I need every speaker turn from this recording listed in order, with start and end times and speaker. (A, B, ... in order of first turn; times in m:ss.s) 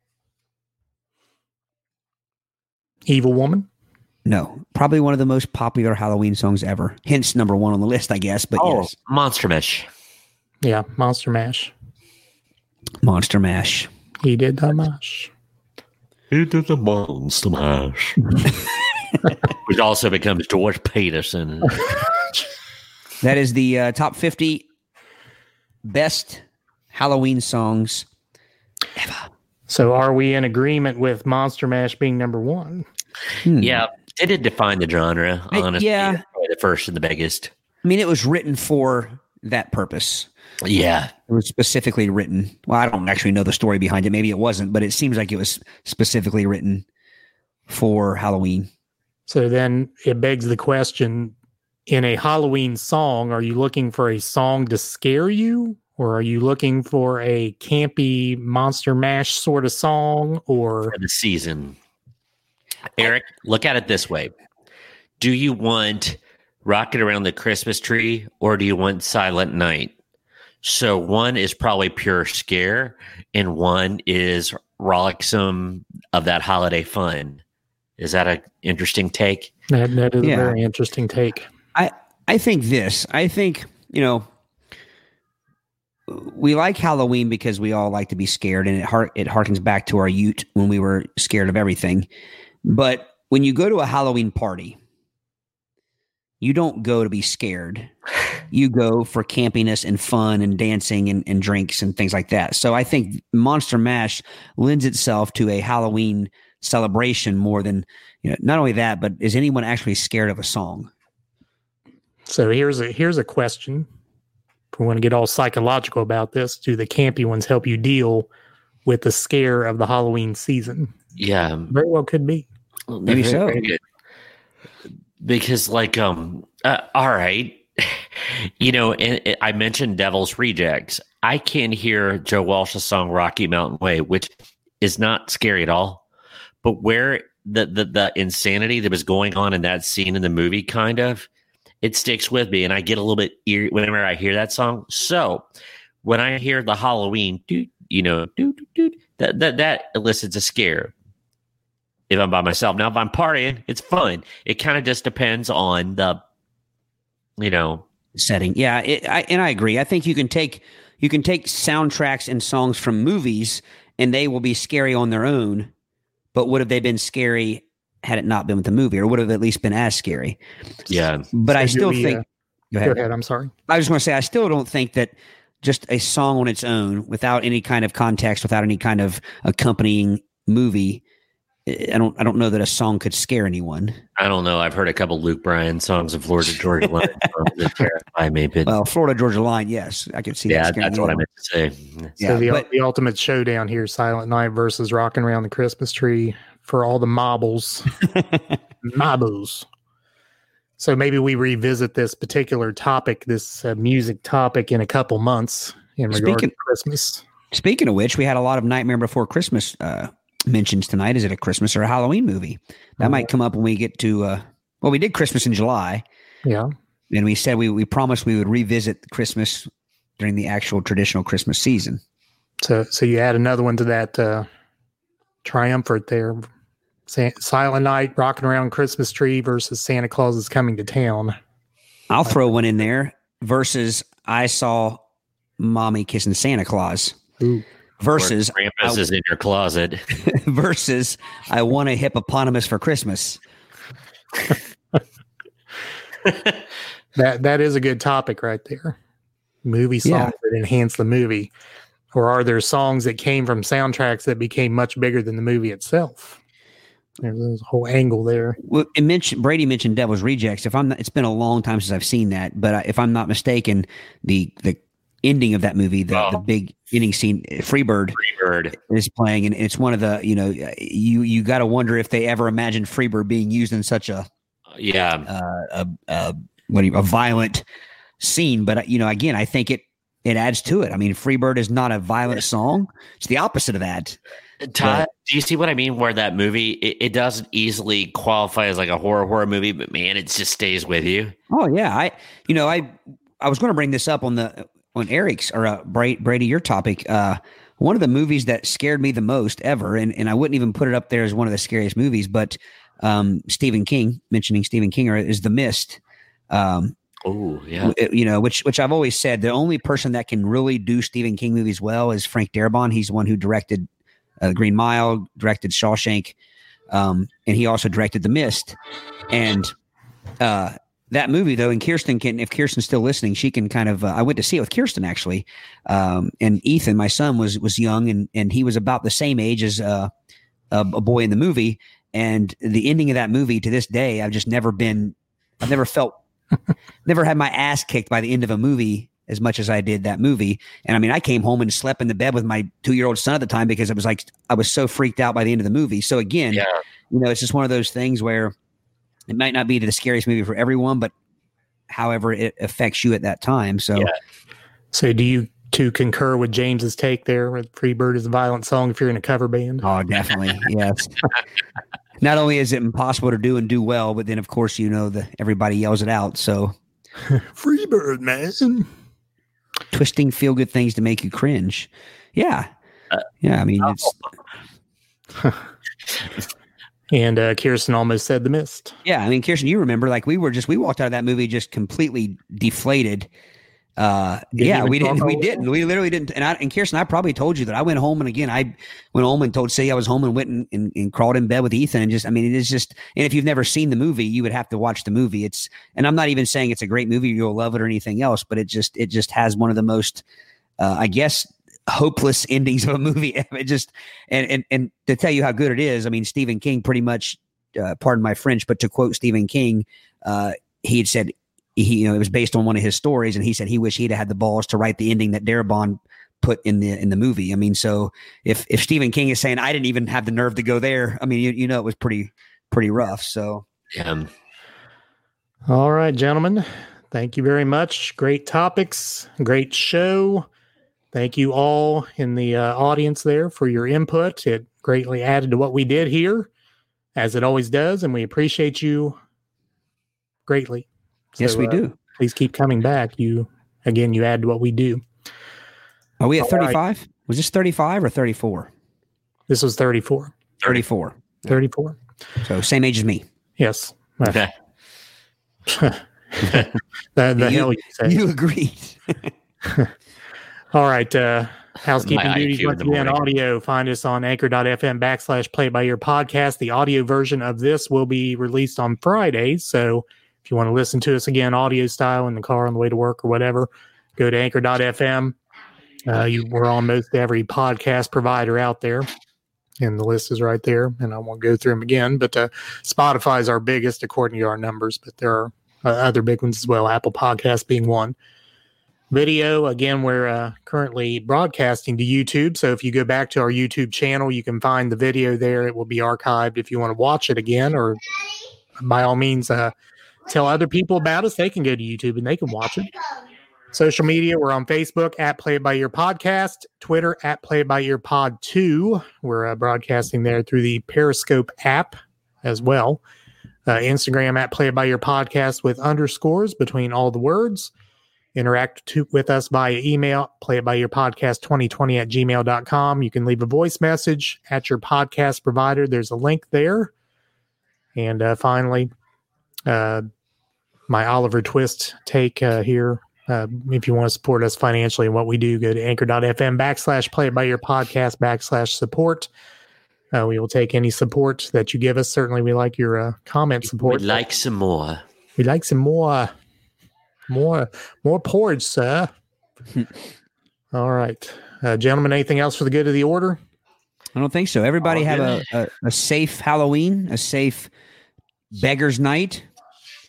0:03.0-0:03.7 A
0:04.2-0:08.9 B
0:08.6-0:09.8 C
0:10.6-0:11.7 A
0:13.0-0:13.9 B
0:14.2-0:15.3 A
0:16.3-0:18.2 C
0:19.5-0:22.0 C
0:23.2-0:24.6 B
0:25.8-0:28.0 B
0:29.0-0:29.2 B
0:29.7-0:32.8 A
0:33.4-0:33.8 B
0:33.6-0:37.5 C
0:35.5-0:36.2 B
0:37.8-0:40.3 B
0:40.6-0:41.1 C
0:41.3-0:46.8 B
0:47.7-0:48.7 B
0:49.3-0:51.3 A
0:51.9-1:00.9 A
1:00.9-1:01.8 C
1:03.0-1:04.3 C
1:05.2-1:09.9 C
1:10.6-1:17.4 C
1:18.0-1:19.5 C
1:19.7-1:21.5 A
1:20.2-1:20.6 B
1:21.7-1:24.2 B
1:26.1-1:32.1 B
1:32.6-1:34.8 B
1:36.4-1:37.9 B
1:38.5-1:50.9 B
1:52.3-1:53.9 A
1:54.7-1:58.3 A
1:58.8-2:00.9 A
2:01.2-2:01.7 C
2:01.7-2:02.5 A
2:02.9-2:03.8 C
2:03.1-2:03.6 B
2:05.2-2:16.0 C
2:16.6-2:21.3 C
2:21.8-2:25.4 C
2:26.0-2:30.9 C
2:32.1-2:36.2 C
2:37.4-2:37.8 C
2:38.2-2:45.7 B
2:46.3-2:50.4 B
2:50.9-2:51.3 C
2:51.3-2:53.0 B
2:51.5-2:52.2 A
2:52.8-2:53.5 A
2:53.7-3:01.0 B
3:01.6-3:04.0 B
3:04.2-3:08.8 C
3:08.6-3:11.2 B
3:10.5-3:12.1 C
3:12.2-3:12.6 B
3:12.2-3:18.0 A
3:18.8-3:19.6 A
3:20.8-3:27.2 A
3:26.1-3:26.5 B
3:27.5-3:36.0 B
3:33.0-3:33.3 A
3:36.4-3:36.7 A
3:37.1-3:39.7 B
3:40.2-3:42.0 B
3:42.6-3:44.5 A
3:45.4-3:46.5 A
3:47.1-3:51.3 A
3:52.1-3:55.0 B
3:55.6-3:57.2 B
3:57.4-3:57.6 A
3:58.0-3:59.0 B
3:58.1-4:00.0 C
4:00.2-4:03.4 B
4:07.2-4:09.0 A
4:09.6-4:11.5 A
4:10.0-4:10.3 B
4:12.1-4:16.4 A
4:17.2-4:18.6 A
4:18.6-4:28.2 B
4:26.1-4:26.4 C
4:28.2-4:28.7 C
4:28.7-4:34.3 B
4:34.7-4:35.3 C
4:35.2-4:37.6 B
4:38.2-4:44.2 B
4:44.6-4:51.3 C
4:44.8-4:45.1 B
4:51.5-5:06.9 B
5:07.2-5:07.9 C
5:07.8-5:13.9 B
5:14.4-5:16.4 B
5:16.9-5:18.8 B
5:19.3-5:19.7 B
5:20.4-5:30.1 B
5:30.7-5:36.2 B
5:37.0-5:48.5 B
5:49.3-5:51.1 B
5:51.9-5:54.1 B
5:54.9-5:59.9 A
5:59.8-6:01.2 B
6:02.2-6:06.7 B
6:07.3-6:08.9 A
6:09.9-6:12.7 B
6:13.4-6:14.1 B
6:17.1-6:18.9 A
6:19.0-6:23.3 B
6:24.0-6:40.2 B
6:24.6-6:25.7 A
6:40.8-7:03.6 B
7:03.9-7:04.3 C
7:05.7-7:10.5 A
7:11.1-7:16.5 A
7:17.2-7:19.2 A
7:20.5-7:25.0 A
7:21.4-7:21.9 B
7:26.2-7:28.7 B
7:26.4-7:26.8 A
7:29.5-7:30.3 A
7:30.6-7:31.2 B
7:31.4-7:32.0 A
7:32.4-7:33.2 B
7:33.6-7:34.4 A
7:35.7-7:38.2 A
7:37.4-7:39.3 B
7:39.6-7:39.9 A
7:40.7-7:55.4 A
7:42.0-7:43.2 C
7:56.0-7:59.1 A
7:59.8-8:08.2 A
8:09.1-8:18.0 A
8:18.8-8:19.7 A
8:20.3-8:22.9 A
8:23.7-8:33.0 A
8:33.7-8:37.7 A
8:38.3-8:46.9 A
8:48.0-8:48.9 A
8:49.7-8:50.0 A
8:50.9-8:59.3 A
9:00.1-9:04.2 A
9:03.8-9:05.0 C
9:05.4-9:06.3 A
9:07.3-9:09.1 A
9:10.7-9:13.4 A
9:14.1-9:17.7 B
9:18.5-9:19.4 B